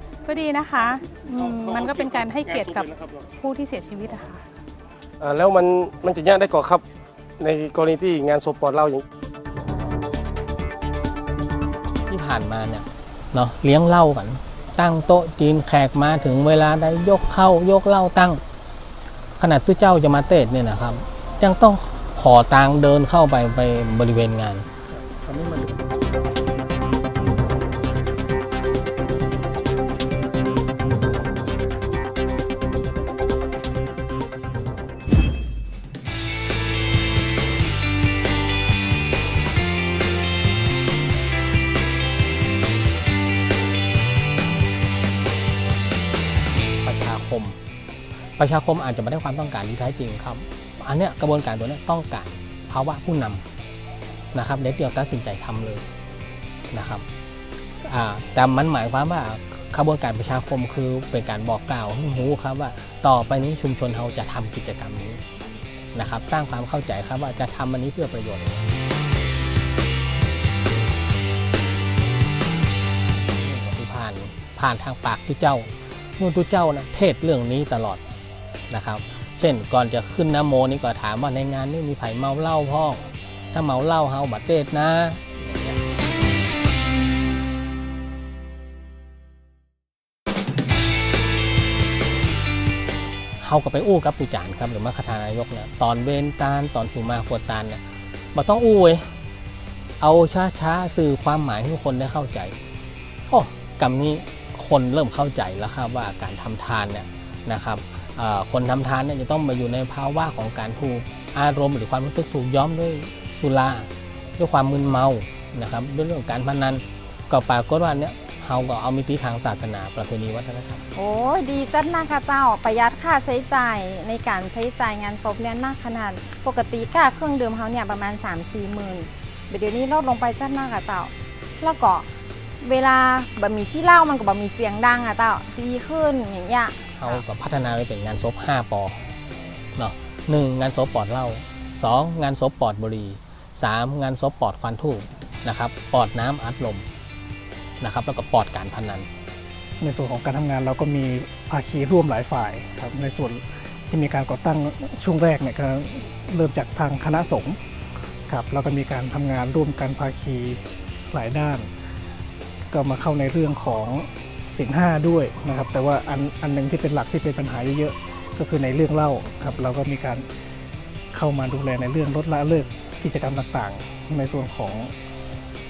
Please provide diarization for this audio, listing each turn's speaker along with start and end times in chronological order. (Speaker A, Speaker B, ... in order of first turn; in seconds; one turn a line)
Speaker A: 0.2-4.4
Speaker B: 5.2-6.8
Speaker B: 7.4-9.0
Speaker C: 12.1-18.4
Speaker C: 19.4-24.6
Speaker D: 25.1-25.6
Speaker C: 46.8-47.6
Speaker C: 48.4-53.4
Speaker C: 54.3-55.8
Speaker C: 56.7-57.0
Speaker C: 57.8-65.2
Speaker C: 65.9-68.6
Speaker C: 73.4-78.0
Speaker C: 78.7-85.8
Speaker C: 93.4-97.8
Speaker C: 98.3-99.1
Speaker C: 100.0-102.6
Speaker C: 103.3-120.8
Speaker E: 120.9-132.1
Speaker E: 132.6-137.2
Speaker C: 136.9-139.0
Speaker C: 139.8-146.8
Speaker C: 147.8-149.1
Speaker D: 149.8-157.6
Speaker D: 158.3-161.7
Speaker D: 162.7-170.2
Speaker D: 171.1-174.9